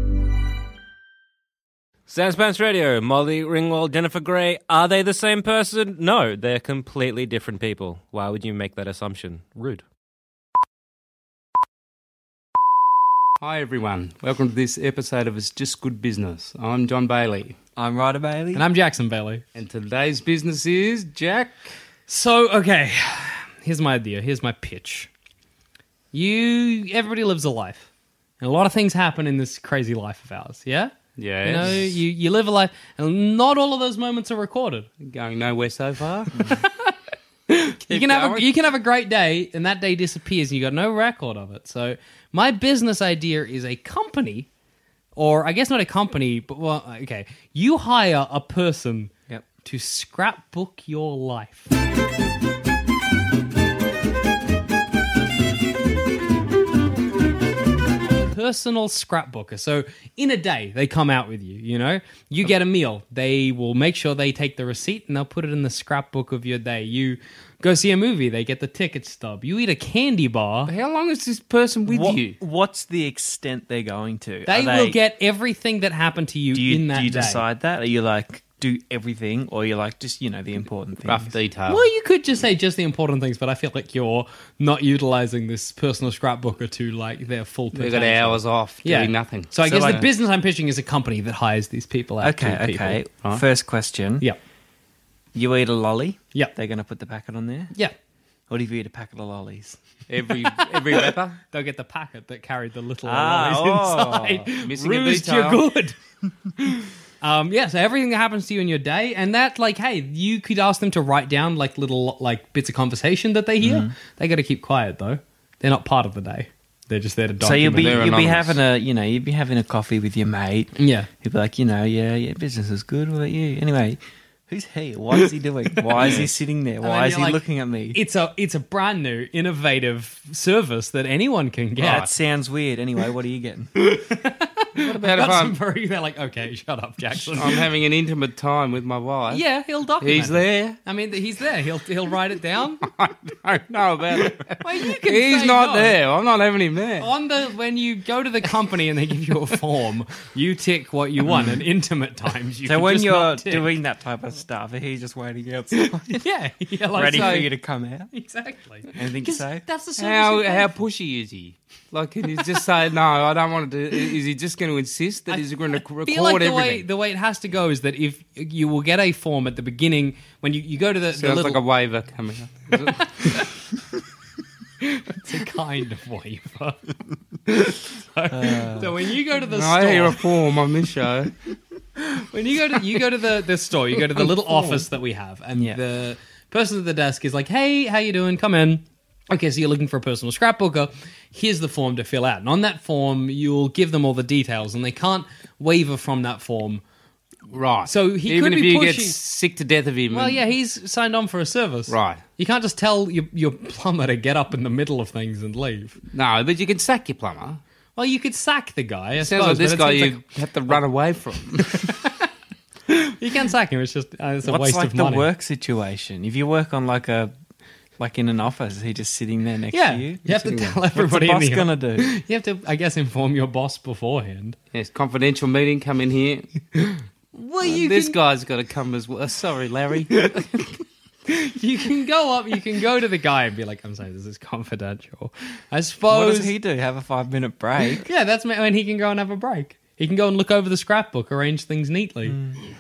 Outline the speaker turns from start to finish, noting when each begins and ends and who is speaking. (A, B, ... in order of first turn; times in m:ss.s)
0:02.1-0:09.8 A
0:13.4-0:17.6 B
0:17.8-0:18.7 C
0:18.6-0:19.4 D
0:19.6-0:21.7 B
0:22.1-0:25.1 D
0:26.1-0:27.9 D
0:28.4-0:34.9 D
0:31.2-0:32.0 B
0:35.0-0:36.3 B
0:36.4-0:37.0 D
0:37.5-0:44.5 D
0:37.9-0:38.5 B
0:45.2-0:49.1 D
0:49.6-0:51.7 D
0:58.3-1:10.7 D
1:10.7-1:12.4 B
1:11.9-1:15.0 C
1:14.5-1:17.4 D
1:16.5-1:21.4 C
1:21.1-1:21.8 B
1:21.7-1:33.0 D
1:27.7-1:30.0 B
1:29.7-1:30.1 C
1:32.2-1:34.3 C
1:35.3-1:37.7 C
1:38.5-1:39.8 C
1:40.1-1:41.4 B
1:41.5-1:46.0 D
1:43.0-1:44.5 C
1:44.6-1:45.6 B
1:46.6-1:58.0 D
1:53.6-1:53.9 C
1:57.4-2:08.0 C
1:57.8-1:58.6 B
2:00.8-2:01.1 D
2:05.9-2:06.3 B
2:06.8-2:12.1 D
2:11.8-2:13.7 C
2:13.8-2:17.6 D
2:14.8-2:15.6 B
2:17.3-2:19.4 B
2:19.3-2:22.8 D
2:20.0-2:20.8 B
2:22.9-2:27.1 B
2:24.6-2:26.0 D
2:27.0-2:33.7 D
2:31.3-2:31.6 C
2:32.6-2:36.2 C
2:36.1-2:37.5 D
2:36.9-2:38.1 C
2:37.1-2:37.5 B
2:38.1-2:40.7 D
2:38.9-2:39.6 C
2:40.0-2:46.9 B
2:46.0-2:51.6 D
2:51.1-2:53.4 B
2:53.0-2:53.4 D
2:54.8-2:56.8 D
2:58.1-3:00.2 D
2:58.3-2:58.9 C
2:59.5-3:01.3 B
3:02.1-3:16.8 D
3:05.5-3:05.8 C
3:17.5-3:20.4 B
3:17.8-3:19.2 D
3:20.1-3:26.0 D
3:21.9-3:22.2 B
3:26.1-3:27.6 B
3:28.0-3:30.8 D
3:29.2-3:31.8 B
3:31.7-3:32.3 D
3:32.9-3:35.3 D
3:34.4-3:37.3 C
3:38.0-3:42.1 C
3:39.7-3:44.6 D
3:40.4-3:40.8 B
3:44.7-3:46.5 B
3:46.8-3:48.2 D
3:47.6-3:50.6 B
3:51.3-3:56.5 D
3:56.1-3:58.1 C
3:58.0-4:02.4 D
4:02.3-4:02.6 C